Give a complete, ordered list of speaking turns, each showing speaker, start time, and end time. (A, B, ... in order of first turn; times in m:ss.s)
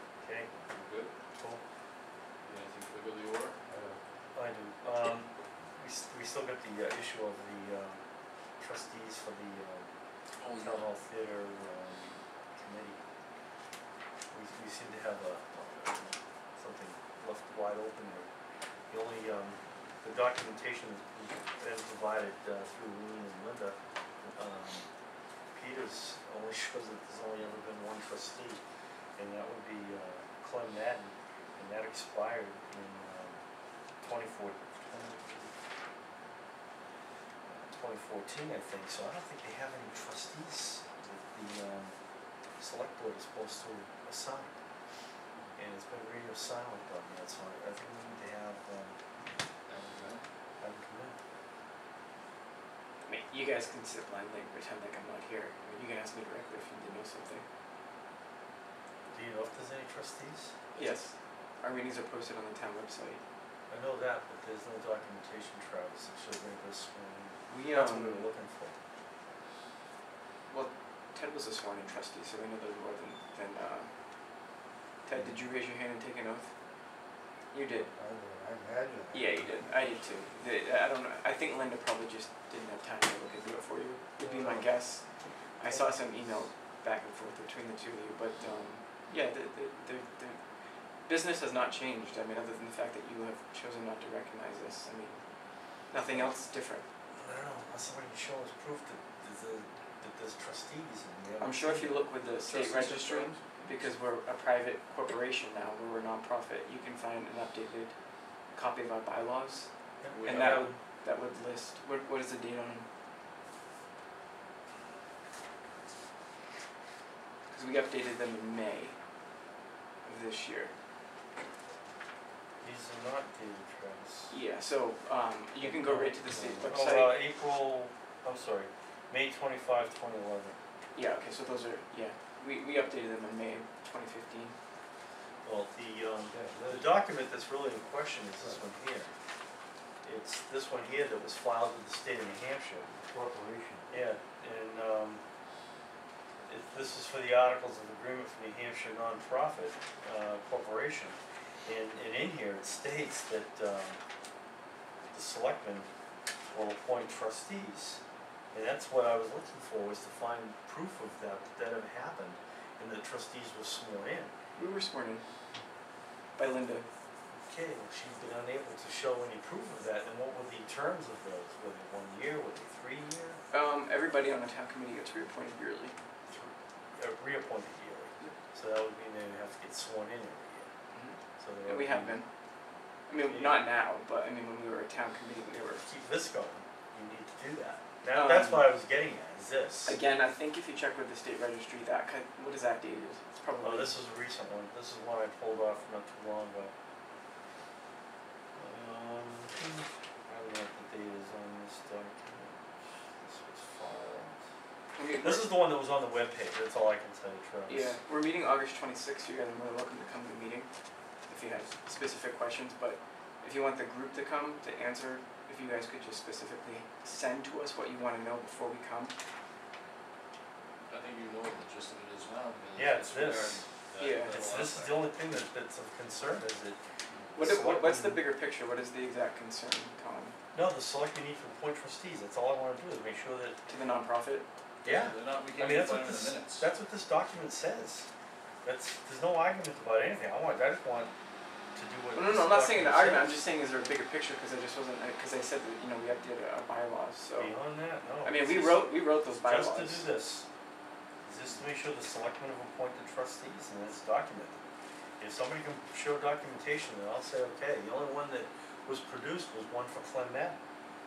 0:00.2-0:00.5 A
0:00.7-0:01.1 B
0:01.3-0:01.6 A
0:02.4-0:03.6 B
0:03.7-0:04.0 C
0:04.3-0:08.0 A
0:08.6-0:09.9 A
0:10.4-0:10.9 B
0:10.5-0:13.0 A
0:14.3-0:18.3 A
0:18.9-0:24.9 A
0:25.5-0:28.6 A
0:29.2-0:33.4 A
0:34.0-0:35.5 A
0:37.4-0:41.9 A
0:42.6-0:44.5 A
0:45.6-0:49.0 A
0:49.7-0:50.2 B
0:50.6-0:51.2 A
0:53.0-0:57.4 D
0:59.1-1:00.5 A
1:00.8-1:03.2 D
1:03.7-1:08.7 A
1:07.5-1:08.3 D
1:10.5-1:13.9 D
1:15.0-1:16.5 D
1:17.5-1:17.9 D
1:17.9-1:20.1 C
1:19.1-1:25.0 D
1:24.2-1:24.7 C
1:25.6-1:30.4 D
1:31.1-1:35.2 D
1:35.9-1:36.8 D
1:36.0-1:36.3 A
1:37.2-1:42.0 A
1:41.4-1:47.9 D
1:42.4-1:43.5 B
1:48.5-1:49.7 D
1:50.0-1:50.8 A
1:50.1-1:50.6 B
1:50.2-1:52.8 D
1:57.5-1:59.0 D
2:00.0-2:00.7 D
2:02.6-2:04.3 A
2:04.3-2:07.2 D
2:05.6-2:10.6 A
2:10.9-2:14.6 D
2:15.4-2:19.1 A
2:16.3-2:16.9 C
2:18.4-2:18.6 C
2:20.0-2:22.9 A
2:22.9-2:23.9 C
2:23.9-2:25.2 A
2:26.4-2:34.0 A
2:35.1-2:35.9 A
2:36.5-2:38.0 A
2:38.5-2:44.3 A
2:44.6-2:45.2 D
2:46.4-2:46.8 D
2:47.3-2:53.4 A
2:53.5-2:55.9 D
2:56.3-3:00.7 A
3:00.9-3:02.3 D
3:01.4-3:02.2 A
3:03.1-3:05.8 D
3:03.3-3:03.6 A
3:05.7-3:10.0 A
3:08.1-3:08.7 D
3:09.8-3:14.0 D
3:13.6-3:16.7 A
3:18.6-3:24.4 A
3:25.0-3:25.6 D
3:25.2-3:28.0 A
3:27.7-3:30.7 D
3:31.3-3:39.1 D
3:40.9-3:45.1 B
3:42.7-3:43.6 A
3:44.0-3:44.4 D
3:44.3-3:46.8 A
3:47.3-3:50.3 D
3:47.4-3:48.2 A
3:50.5-3:53.6 A
3:53.7-3:54.4 D
3:54.8-3:56.7 B
3:54.8-3:58.1 A
3:58.6-4:01.1 A
4:01.7-4:03.3 A
4:02.1-4:07.5 D
4:07.4-4:10.4 A
4:08.2-4:10.1 D
4:11.2-4:14.6 A
4:15.2-4:20.6 A